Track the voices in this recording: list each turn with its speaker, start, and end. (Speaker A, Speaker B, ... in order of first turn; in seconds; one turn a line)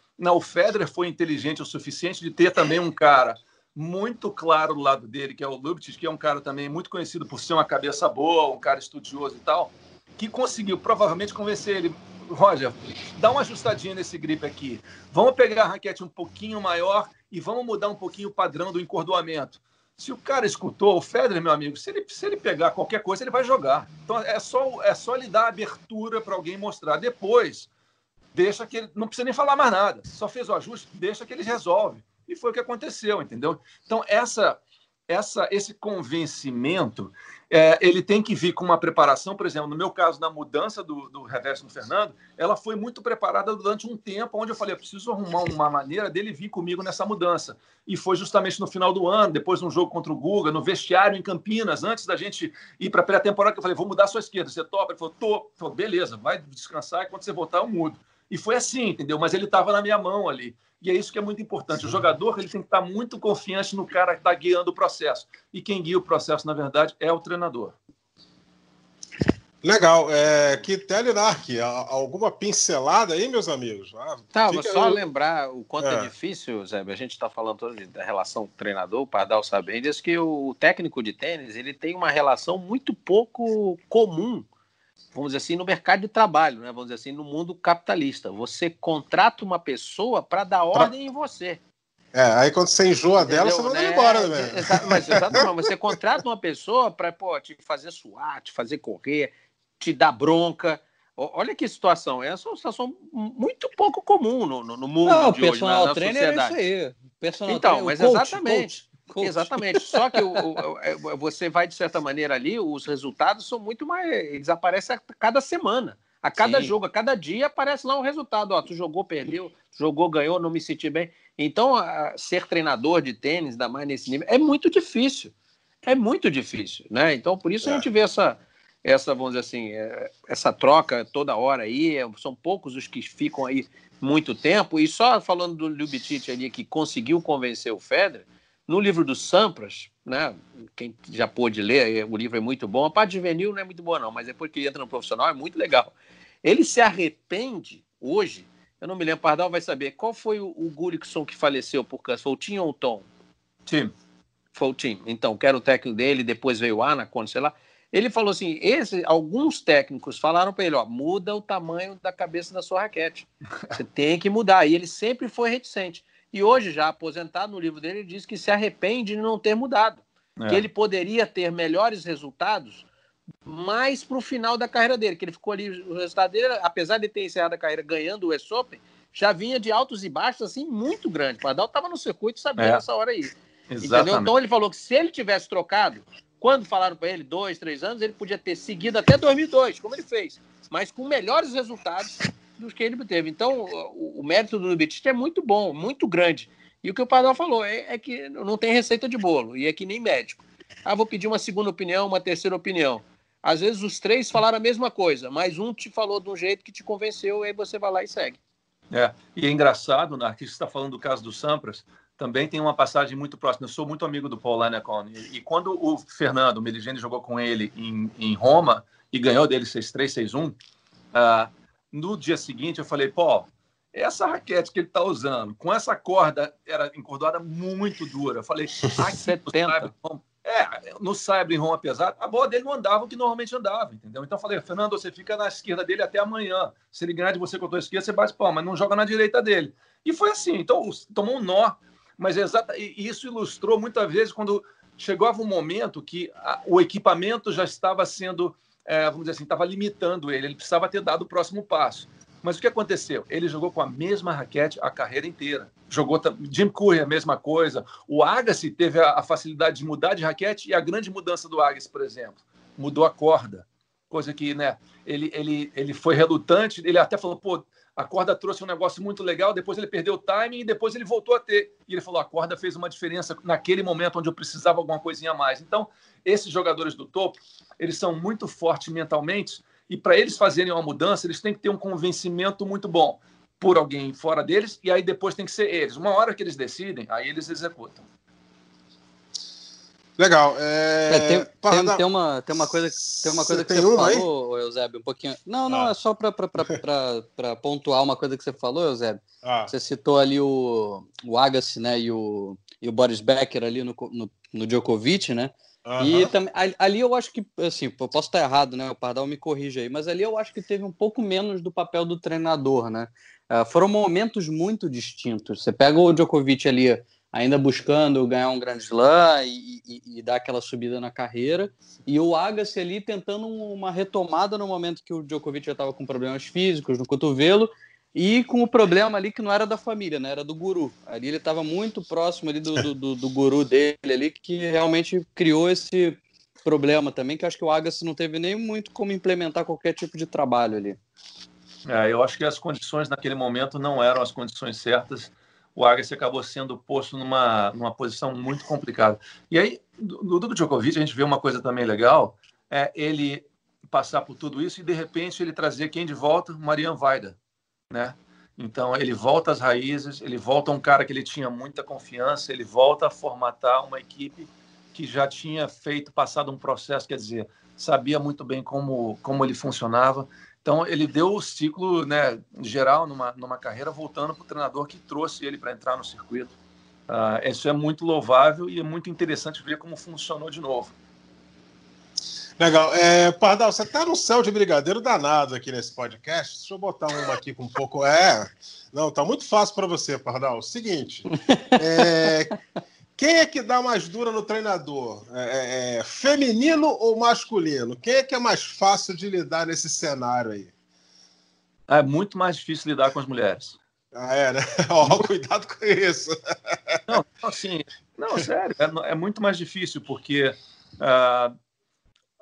Speaker A: 0.2-27.7
Speaker A: 28.3-67.8
Speaker B: 69.6-75.0
Speaker C: 74.3-84.5
Speaker B: 75.8-76.1
Speaker C: 85.1-91.6
Speaker B: 92.1-95.5
Speaker C: 93.2-106.5
Speaker D: 105.0-110.4
Speaker C: 107.5-125.3
Speaker D: 116.4-116.7
Speaker C: 125.8-153.1
Speaker A: 153.7-153.9
Speaker C: 154.5-172.8
Speaker A: 170.4-170.6
Speaker C: 173.4-208.4
Speaker A: 182.6-182.8
Speaker A: 183.7-184.3
Speaker A: 208.9-220.5
Speaker A: 221.1-288.0
Speaker C: 228.9-229.9
Speaker B: 290.2-292.0
Speaker D: 291.1-341.0
Speaker B: 293.0-294.2
Speaker B: 299.4-299.7
Speaker B: 305.8-306.3
Speaker A: 341.9-357.4
Speaker A: 357.9-376.5
Speaker A: 377.1-380.9
Speaker B: 382.6-392.5
Speaker D: 391.3-392.0
Speaker B: 393.2-400.7
Speaker A: 401.9-403.8
Speaker B: 404.1-407.0
Speaker A: 407.1-411.5